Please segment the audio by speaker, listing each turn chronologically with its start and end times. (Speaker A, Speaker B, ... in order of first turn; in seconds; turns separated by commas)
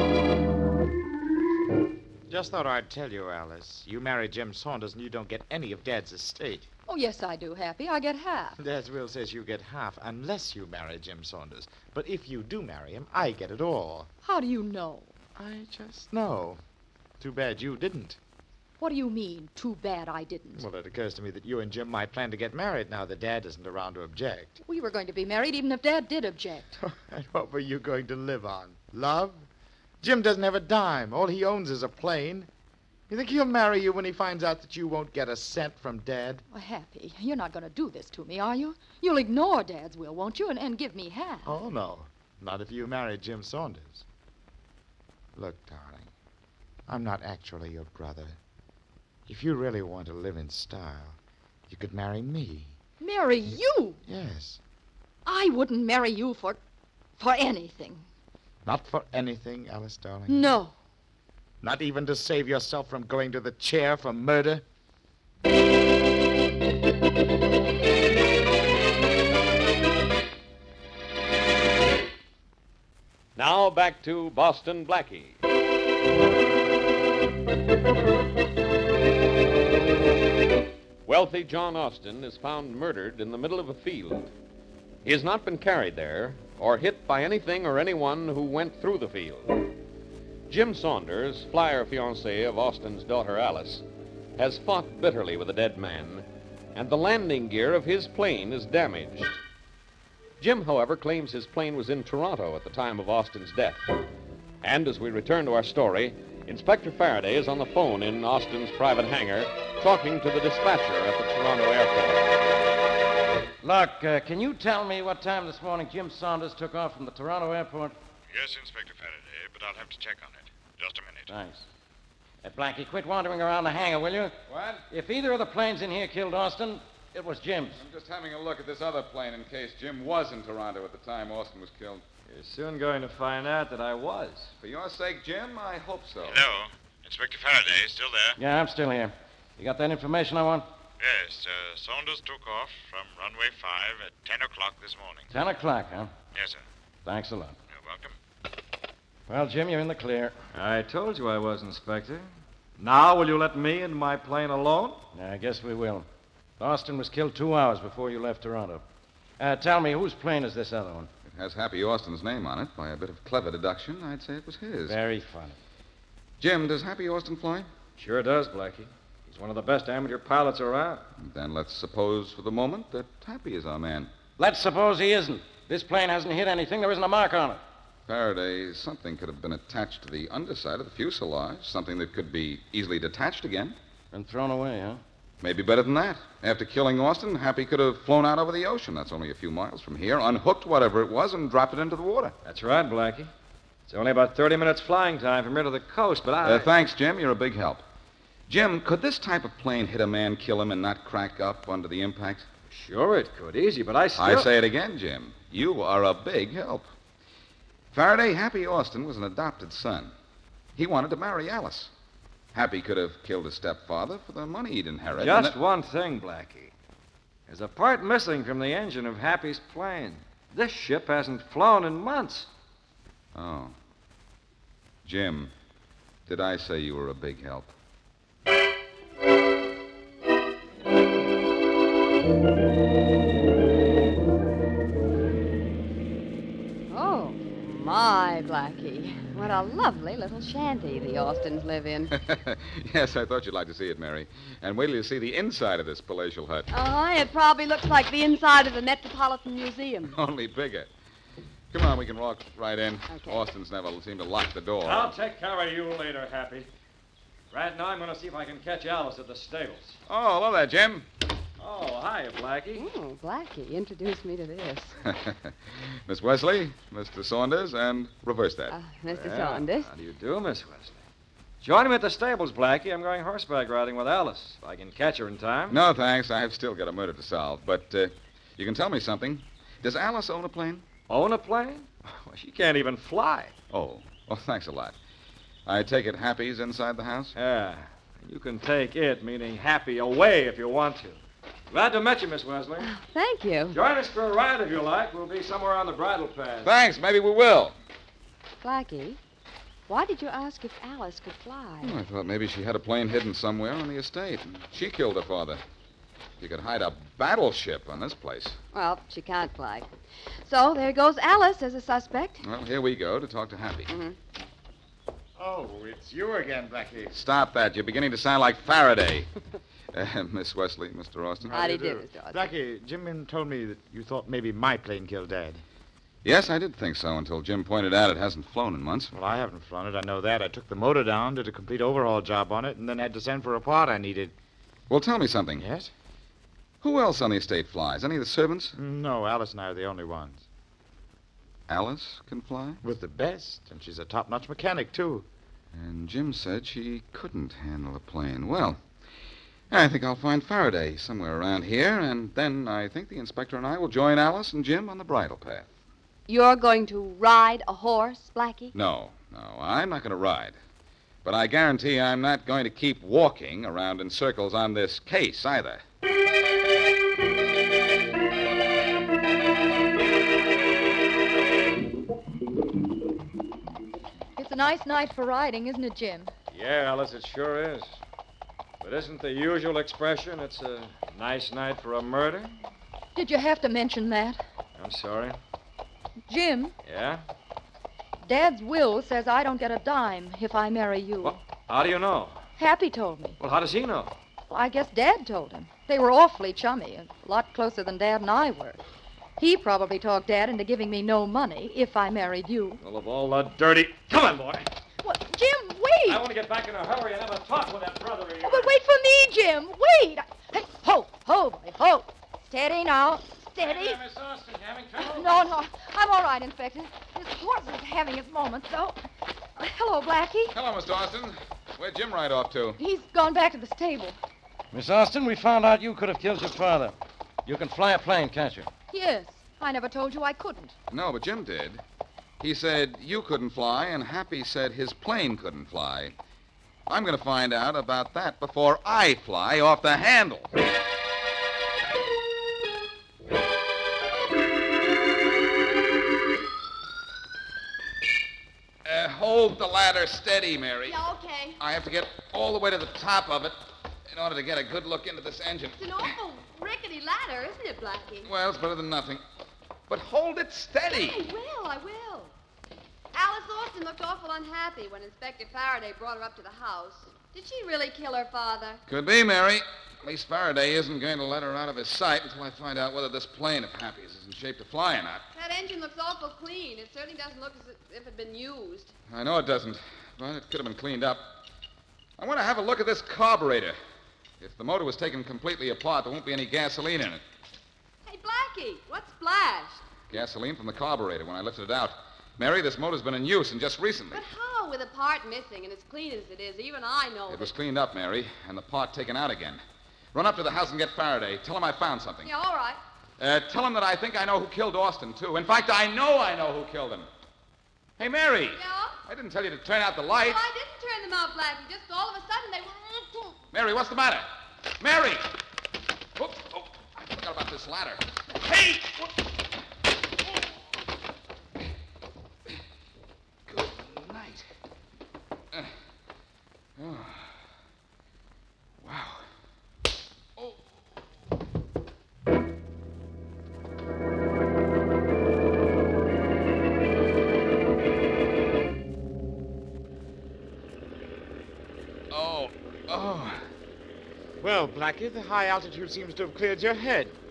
Speaker A: 2.3-6.7, Speaker B: 6.9-8.6, Speaker A: 8.6-14.1, Speaker B: 14.2-15.1, Speaker A: 15.4-16.6, Speaker A: 17.2-18.2, Speaker B: 18.8-20.7, Speaker A: 20.6-24.6, Speaker B: 24.6-26.8, Speaker A: 26.8-29.5, Speaker A: 30.0-32.5, Speaker A: 33.1-36.4, Speaker B: 36.5-41.6, Speaker A: 41.5-44.0, Speaker A: 45.4-46.1, Speaker A: 46.9-48.4, Speaker A: 49.3-51.2, Speaker A: 51.7-52.8, Speaker B: 53.0-54.0, Speaker A: 54.1-54.6, Speaker B: 55.3-56.6, Speaker B: 57.2-58.1, Speaker A: 58.6-60.5, Speaker B: 60.3-60.7, Speaker A: 61.6-64.6, Speaker C: 73.4-75.4, Speaker C: 81.0-84.3, Speaker C: 85.0-89.6, Speaker C: 90.5-93.8, Speaker C: 94.4-99.4, Speaker C: 100.4-103.9, Speaker C: 104.6-112.3, Speaker D: 113.6-118.0, Speaker E: 118.3-121.3, Speaker D: 121.3-121.7, Speaker D: 122.4-124.3, Speaker F: 124.5-124.8, Speaker D: 124.9-127.8, Speaker F: 127.8-132.0, Speaker G: 132.3-134.5, Speaker F: 134.6-136.5, Speaker E: 136.2-138.4, Speaker D: 138.4-140.7, Speaker E: 141.0-145.3, Speaker D: 145.3-146.1, Speaker E: 146.3-146.6, Speaker D: 147.1-147.6, Speaker E: 147.7-148.2, Speaker D: 149.3-150.4, Speaker G: 150.5-152.3, Speaker G: 152.8-155.1, Speaker D: 155.1-156.1, Speaker D: 156.6-158.8, Speaker D: 159.4-161.1, Speaker F: 161.3-165.0, Speaker D: 164.9-165.6, Speaker F: 166.4-167.7, Speaker G: 168.0-171.1, Speaker F: 171.2-174.1, Speaker D: 174.4-177.6, Speaker F: 178.1-183.8, Speaker D: 184.1-185.0, Speaker F: 185.4-192.3, Speaker G: 192.4-193.3, Speaker G: 193.9-196.7, Speaker F: 196.4-197.8, Speaker F: 198.5-202.5, Speaker G: 202.7-204.5, Speaker F: 204.2-206.9, Speaker F: 207.9-210.1, Speaker F: 210.8-211.9, Speaker F: 212.5-215.6, Speaker G: 215.2-216.7, Speaker G: 217.5-222.5, Speaker F: 223.3-223.7, Speaker F: 225.1-225.5, Speaker F: 226.3-227.7, Speaker H: 236.9-242.1, Speaker F: 242.1-246.7, Speaker H: 246.7-250.2, Speaker F: 250.1-250.9, Speaker F: 251.7-255.1, Speaker H: 253.1-253.5, Speaker G: 254.8-256.7, Speaker G: 257.5-260.0, Speaker F: 260.1-261.1, Speaker G: 261.6-262.9, Speaker H: 262.8-265.0, Speaker F: 265.1-265.5, Speaker F: 266.1-268.8, Speaker H: 268.7-269.9, Speaker G: 269.1-271.0, Speaker G: 271.6-275.8, Speaker F: 275.7-280.9, Speaker G: 281.1-283.6, Speaker F: 283.7-285.0, Speaker F: 285.7-287.4, Speaker G: 287.3-291.2, Speaker G: 291.7-292.9, Speaker H: 292.8-293.8, Speaker G: 293.7-296.7, Speaker F: 296.6-297.8, Speaker H: 298.6-299.2, Speaker H: 299.9-302.0, Speaker F: 301.8-305.6, Speaker F: 306.4-308.6, Speaker H: 308.7-312.4, Speaker F: 312.4-313.9, Speaker H: 313.9-314.2, Speaker A: 315.4-317.1, Speaker F: 317.1-319.3, Speaker F: 319.9-321.6, Speaker A: 321.4-325.6, Speaker H: 321.5-322.5, Speaker F: 326.2-329.1, Speaker A: 329.1-334.4, Speaker F: 334.9-335.6, Speaker A: 335.6-335.9, Speaker F: 336.8-338.8, Speaker A: 338.8-340.4, Speaker F: 341.7-342.8, Speaker A: 342.8-345.3, Speaker F: 345.7-348.8, Speaker F: 349.7-355.7, Speaker H: 356.3-358.7, Speaker F: 358.7-360.6, Speaker F: 361.2-365.8, Speaker B: 374.4-376.3, Speaker G: 376.5-378.0, Speaker G: 378.8-382.5, Speaker B: 383.1-384.4, Speaker G: 384.8-385.4, Speaker B: 386.3-386.7, Speaker G: 386.8-387.2, Speaker B: 388.2-391.4, Speaker G: 391.2-392.4, Speaker B: 392.6-393.4, Speaker G: 393.4-394.1, Speaker B: 394.5-398.8, Speaker B: 399.4-402.8, Speaker G: 402.8-404.7, Speaker B: 405.0-406.2, Speaker G: 406.1-408.7, Speaker B: 408.4-414.0, Speaker D: 413.6-415.4, Speaker B: 415.0-419.0, Speaker B: 419.6-420.6, Speaker F: 420.5-422.8, Speaker B: 422.8-424.2, Speaker D: 424.7-426.9, Speaker D: 427.4-428.7, Speaker B: 428.9-430.7, Speaker F: 430.9-431.8, Speaker F: 432.4-436.1, Speaker F: 436.9-440.5, Speaker F: 448.9-451.0, Speaker H: 450.9-451.6, Speaker F: 451.6-453.6, Speaker F: 454.1-456.1, Speaker H: 455.8-458.3, Speaker F: 458.2-459.2, Speaker F: 459.9-461.2, Speaker H: 460.9-462.4, Speaker H: 463.1-468.8, Speaker F: 468.9-475.2, Speaker H: 475.3-478.9, Speaker F: 479.1-481.4, Speaker F: 482.2-483.8, Speaker F: 484.4-487.2, Speaker H: 488.1-489.8, Speaker F: 490.1-494.2, Speaker H: 494.1-497.5, Speaker F: 497.3-499.6, Speaker F: 500.1-502.3, Speaker H: 502.2-502.8, Speaker F: 503.2-507.1, Speaker F: 508.0-510.4, Speaker H: 508.5-508.9, Speaker H: 510.2-513.4, Speaker F: 513.5-514.3, Speaker F: 514.8-515.3, Speaker F: 516.2-519.1, Speaker F: 523.5-524.5, Speaker F: 526.8-527.3, Speaker F: 528.8-529.2, Speaker F: 530.4-530.7, Speaker F: 542.1-543.4, Speaker A: 544.4-547.2